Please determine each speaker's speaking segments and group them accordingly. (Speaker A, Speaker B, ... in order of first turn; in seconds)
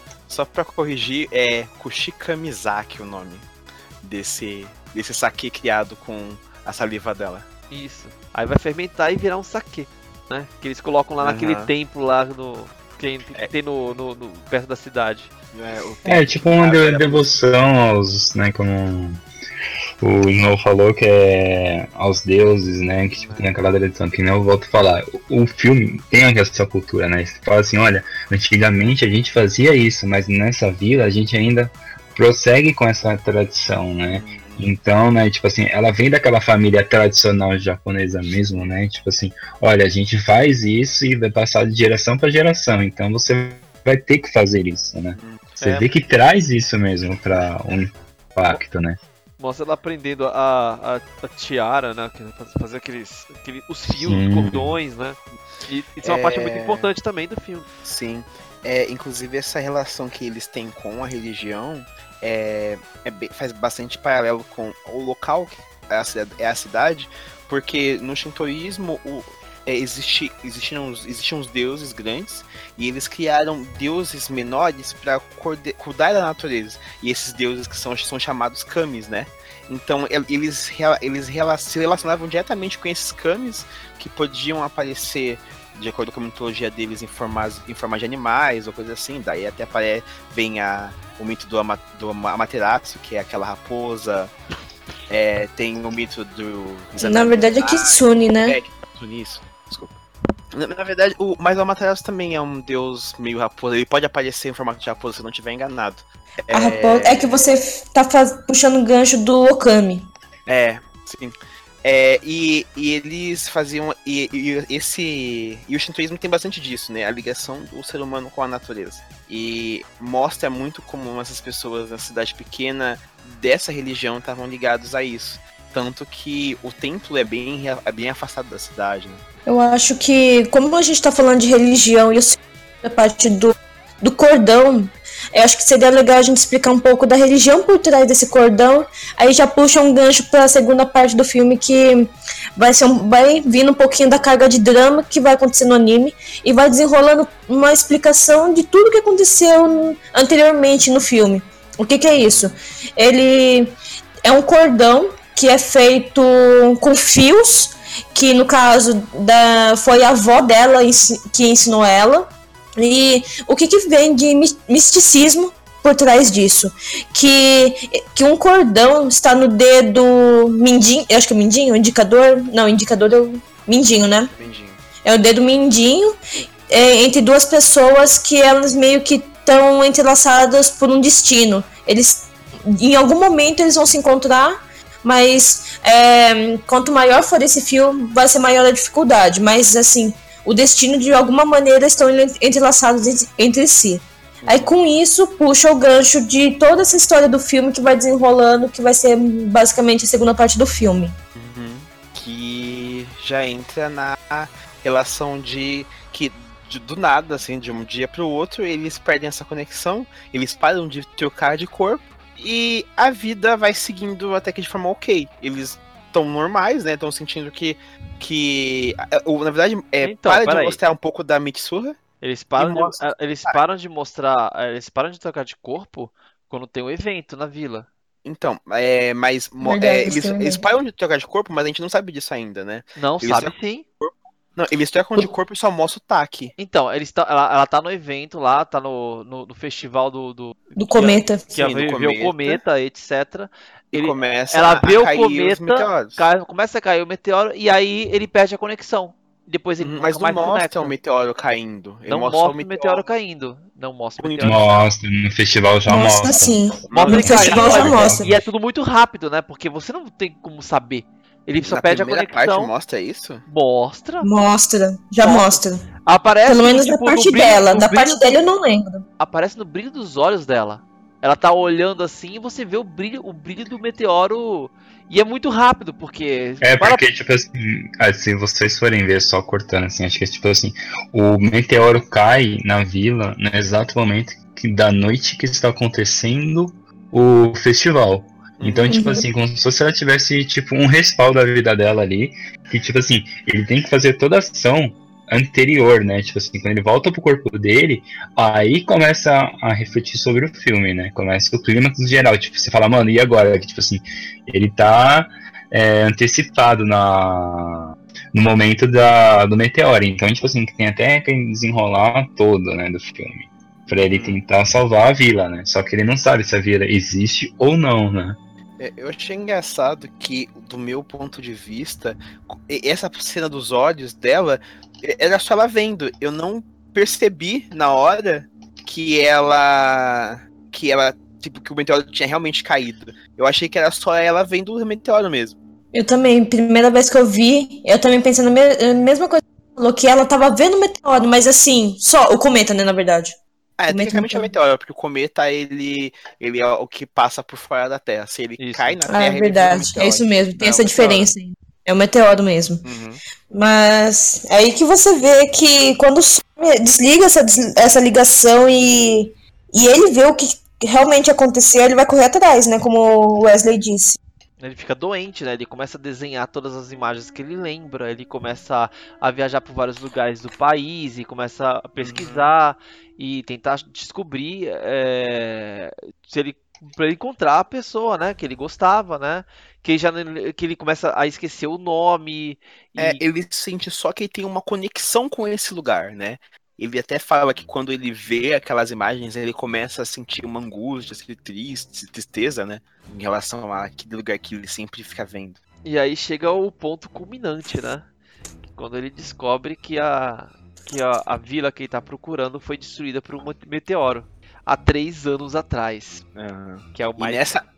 Speaker A: 0.3-3.5, 4.0-7.5, 11.2-11.7, 15.5-17.3, 23.2-23.5, 34.1-34.7, 45.1-45.6, 56.0-56.9, 57.8-94.3, 95.1-100.0, 100.5-107.4, 110.5-129.2, 152.2-152.5, 174.3-174.8, 194.4-194.7, 201.3-222.0, 222.6-223.6, 228.2-236.5, 241.5-242.6, 243.9-246.2, 249.8-253.0, 254.2-254.7, 256.9-257.3, 261.6-263.4, 288.6-289.0, 313.9-314.4, 318.8-335.6, 343.8-351.3, 352.8-353.2, 372.0-372.5, 383.0-395.6, 406.3-407.6
Speaker B: 7.7-15.3, 45.6-45.9, 49.4-57.7, 220.0-220.8, 222.2-227.9, 233.0-233.8, 236.6-250.9, 252.1-254.9, 256.9-262.7, 263.4-264.3, 265.2-268.4, 269.2-277.0, 348.6-349.0, 364.6-383.2, 395.8-398.1, 398.7-406.2, 406.9-407.5
Speaker C: 16.0-19.2, 20.0-49.0, 53.9-54.8, 254.4-258.4, 276.6-318.4
Speaker D: 97.0-98.6, 106.5-110.1, 129.4-174.3, 175.0-176.1, 176.7-201.1, 229.6-230.6, 240.8-241.4, 255.9-258.4, 264.2-265.9, 266.4-269.0, 288.9-289.3, 335.9-343.4, 343.9-344.5, 349.1-352.8, 353.5-364.2